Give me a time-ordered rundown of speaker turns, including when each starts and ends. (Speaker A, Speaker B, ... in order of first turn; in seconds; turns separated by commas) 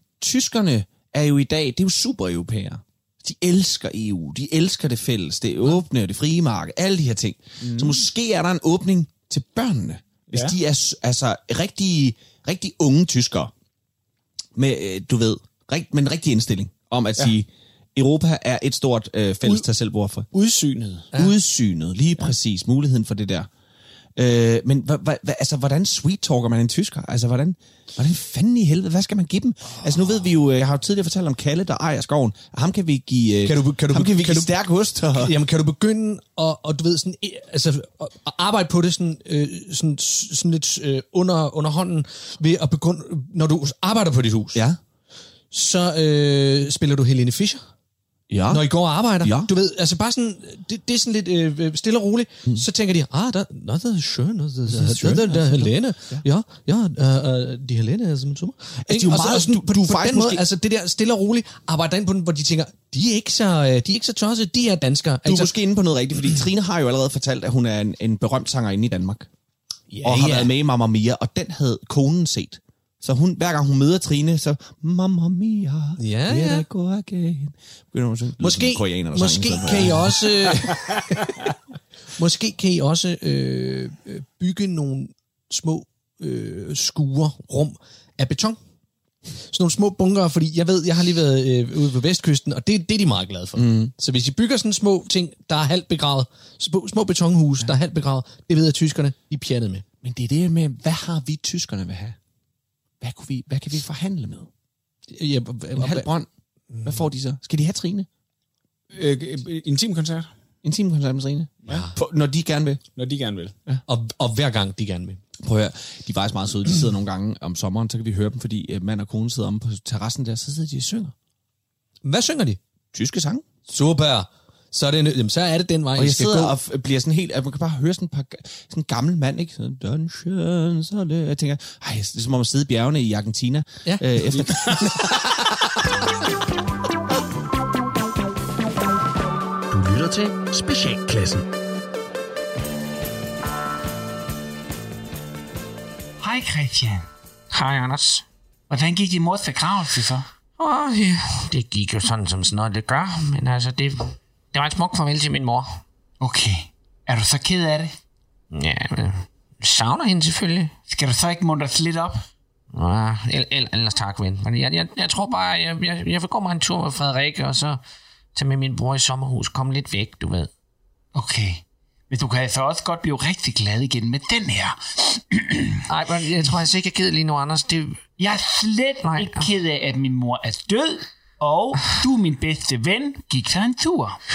Speaker A: 0.2-13.5, Speaker B: 7.6-8.0, Speaker A: 14.5-20.3, Speaker B: 20.3-21.1, Speaker A: 21.1-23.5, Speaker A: 24.1-35.3, Speaker C: 33.4-34.5, Speaker C: 35.1-44.6, Speaker A: 44.5-44.8, Speaker C: 45.5-47.6, Speaker A: 48.3-49.5, Speaker C: 48.5-65.5, Speaker A: 54.7-56.2, Speaker A: 58.9-60.4, Speaker A: 65.2-69.3, Speaker C: 69.9-70.5, Speaker A: 70.0-80.7, Speaker C: 76.0-76.7, Speaker C: 78.4-81.3, Speaker C: 82.2-88.6, Speaker C: 89.5-99.8, Speaker A: 93.5-93.9, Speaker A: 100.0-102.2, Speaker A: 103.0-104.5, Speaker C: 105.1-106.1, Speaker A: 105.8-106.3, Speaker C: 106.7-107.0, Speaker A: 106.8-108.1, Speaker B: 108.9-110.3, Speaker A: 110.6-112.8, Speaker B: 113.0-113.5, Speaker C: 113.9-115.2, Speaker A: 115.4-121.1, Speaker C: 122.0-122.6, Speaker A: 122.9-123.4, Speaker C: 123.7-126.5, Speaker A: 126.0-135.2, Speaker C: 133.8-134.1, Speaker D: 146.2-147.1, Speaker E: 147.5-148.2, Speaker D: 148.7-150.3, Speaker E: 150.6-155.7, Speaker D: 156.2-157.9, Speaker E: 158.5-160.7, Speaker D: 160.9-162.2, Speaker E: 162.7-167.8, Speaker E: 168.3-170.5, Speaker D: 171.1-175.8, Speaker E: 175.9-178.0, Speaker D: 178.2-184.2, Speaker E: 179.0-179.5